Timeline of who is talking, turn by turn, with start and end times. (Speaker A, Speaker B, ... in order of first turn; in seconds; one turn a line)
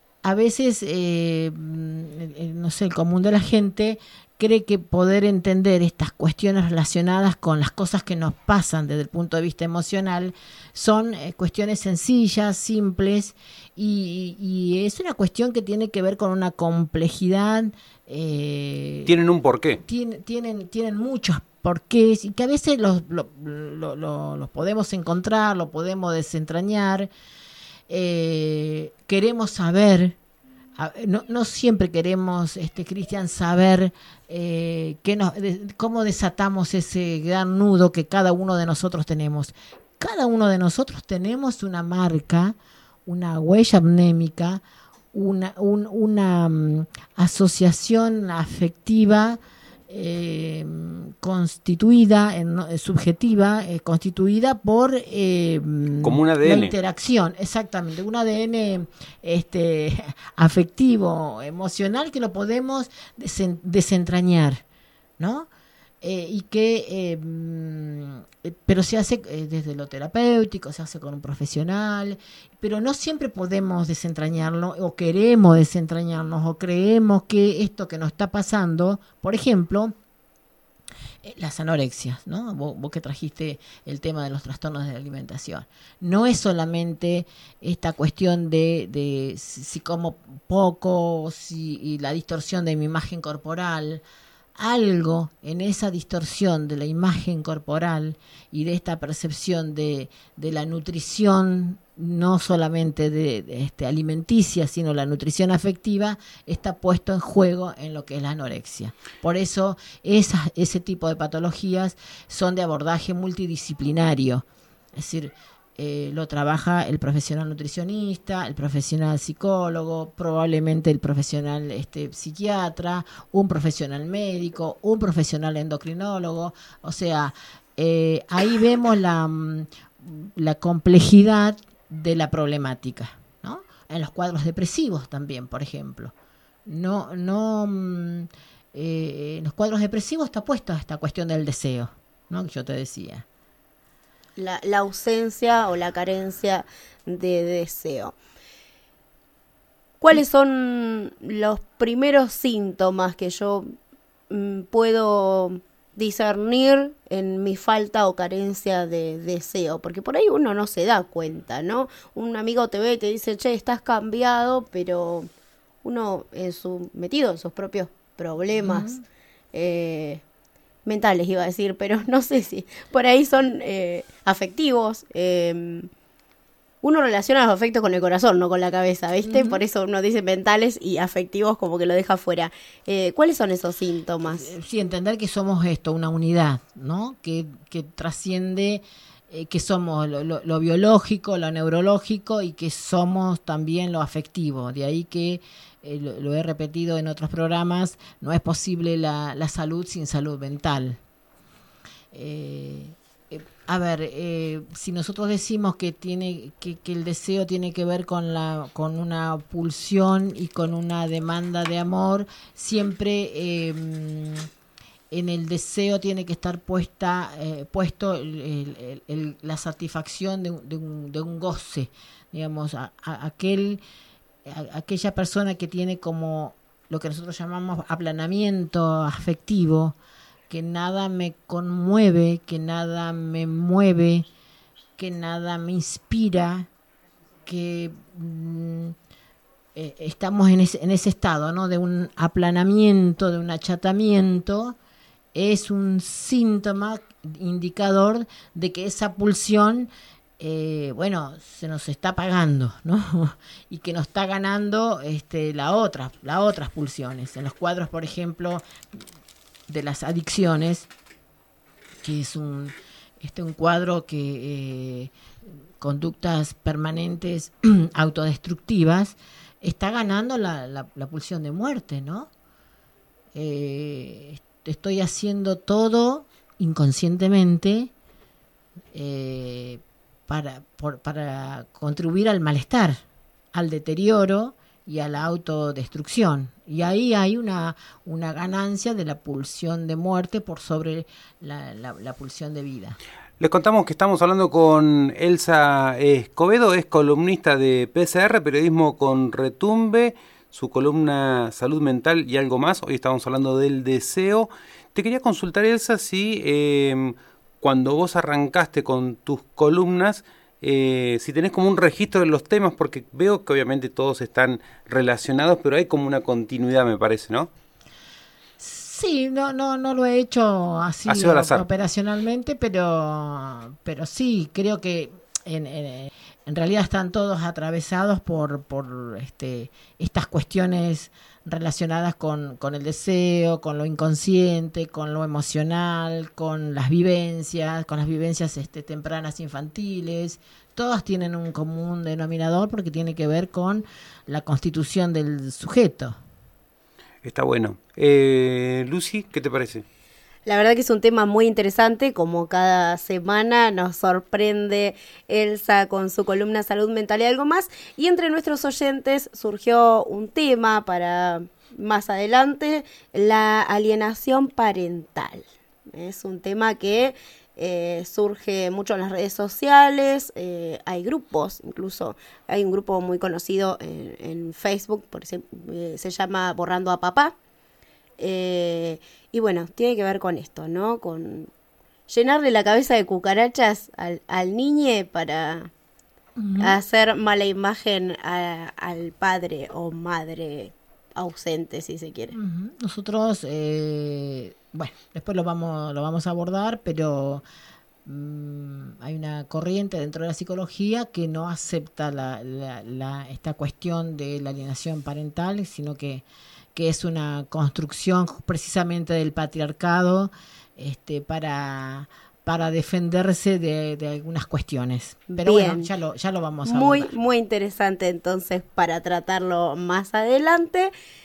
Speaker A: 0.2-19.1
Speaker B: 19.1-19.8
Speaker A: 19.9-27.1
Speaker A: 27.9-30.1
Speaker A: 30.8-64.6
Speaker B: 56.0-56.7
Speaker A: 65.2-65.5
Speaker A: 66.0-79.9
Speaker A: 81.2-94.0
Speaker A: 94.5-136.1
Speaker A: 136.7-143.2
Speaker C: 144.4-148.1
Speaker C: 150.0-153.7
Speaker C: 154.3-165.3
Speaker C: 165.8-168.9
Speaker A: 168.6-169.0
Speaker C: 169.5-170.2
Speaker C: 170.8-175.9
Speaker C: 176.8-184.5
Speaker A: 179.2-179.6
Speaker A: 184.2-201.0
Speaker A: 202.1-214.5
Speaker A: 215.1-223.8
Speaker A: 224.4-229.9
Speaker A: 230.5-234.2
Speaker A: 235.0-236.7
Speaker A: 237.4-238.9
Speaker A: 239.7-244.8
Speaker A: 245.3-258.6
Speaker A: 259.7-260.9
Speaker A: 262.0-265.1
Speaker A: 265.8-272.3
Speaker A: 273.3-277.9
Speaker A: 278.9-283.0
Speaker A: 283.5-293.0
Speaker B: 293.4-317.5
Speaker A: 318.6-346.1
Speaker B: 321.1-321.6
Speaker B: 347.2-349.8
Speaker C: 350.4-377.3
Speaker C: 378.2-381.5
Speaker C: 382.1-385.7
Speaker A: 386.4-386.8
Speaker C: 386.6-392.3
Speaker A: 392.3-397.4
Speaker A: 398.0-417.1
Speaker C: 415.3-415.9
Speaker C: 416.6-420.9